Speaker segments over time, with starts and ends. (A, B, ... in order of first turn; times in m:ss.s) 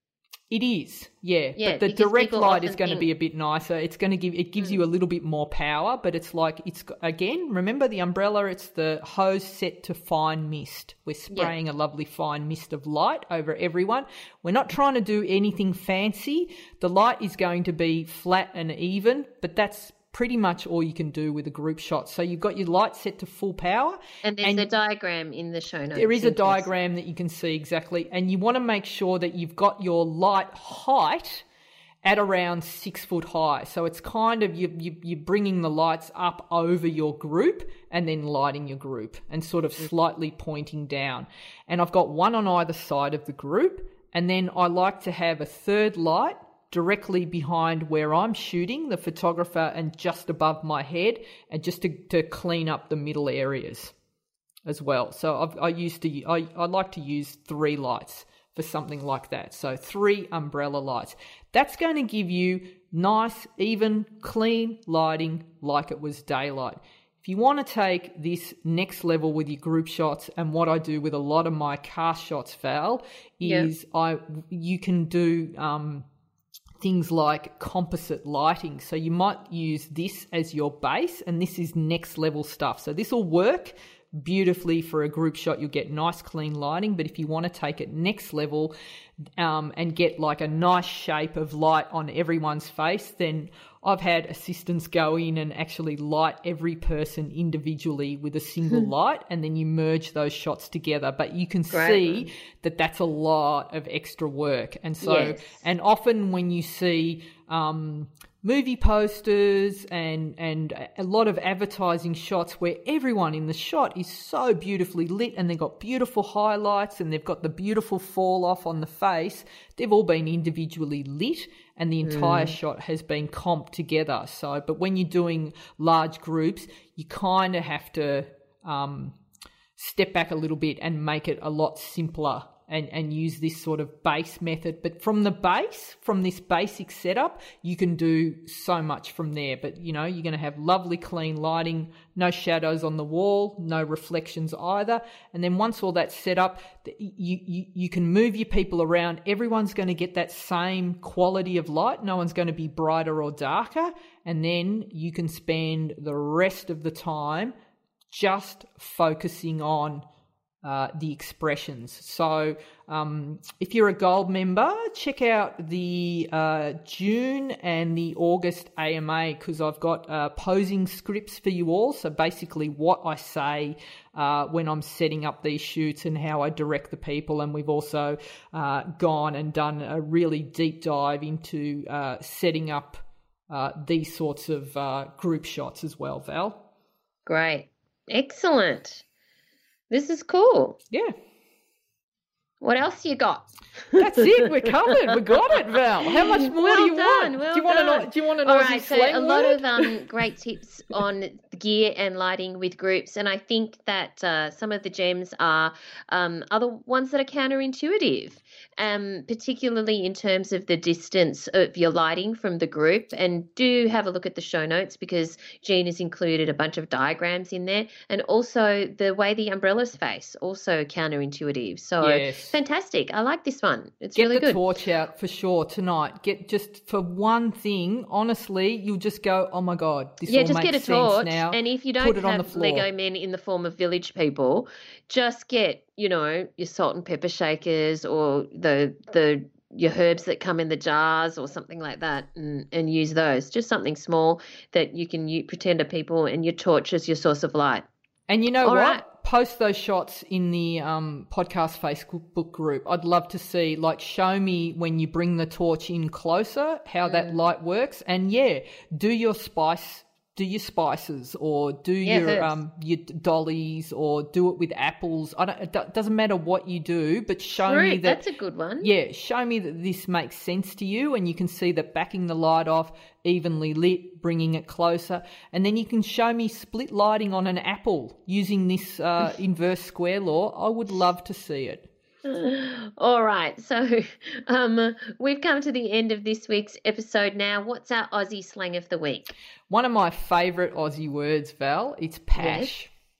0:00.5-0:24.7 A
0:01.6-0:03.1 B
0:24.2-0:26.7 B
0:25.9-0:31.4 A
0:32.0-0:53.9 A
0:54.7-1:16.1 A
1:13.4-1:13.7 B
1:16.8-1:28.7 A
1:29.4-2:09.2 A
1:41.7-1:42.3 B
1:45.0-1:45.6 B
2:02.0-2:02.6 B
2:09.8-2:37.5 A
2:38.1-2:40.0 A
2:40.6-3:06.7 A
3:07.3-3:09.0 B
3:09.9-3:10.8 B
3:12.6-3:15.0 B
3:14.0-3:19.9 A
3:16.1-3:44.6 B
3:42.0-3:42.6 A
3:44.2-3:52.9 A
3:50.3-4:07.9 B
4:08.3-4:28.2 A
4:08.6-4:09.0 B
4:17.0-4:17.4 B
4:22.0-4:22.6 B
4:27.7-4:28.9 B
4:28.8-4:41.9 A
4:42.2-4:49.3 B
4:49.7-4:52.9 A
4:52.4-4:52.7 B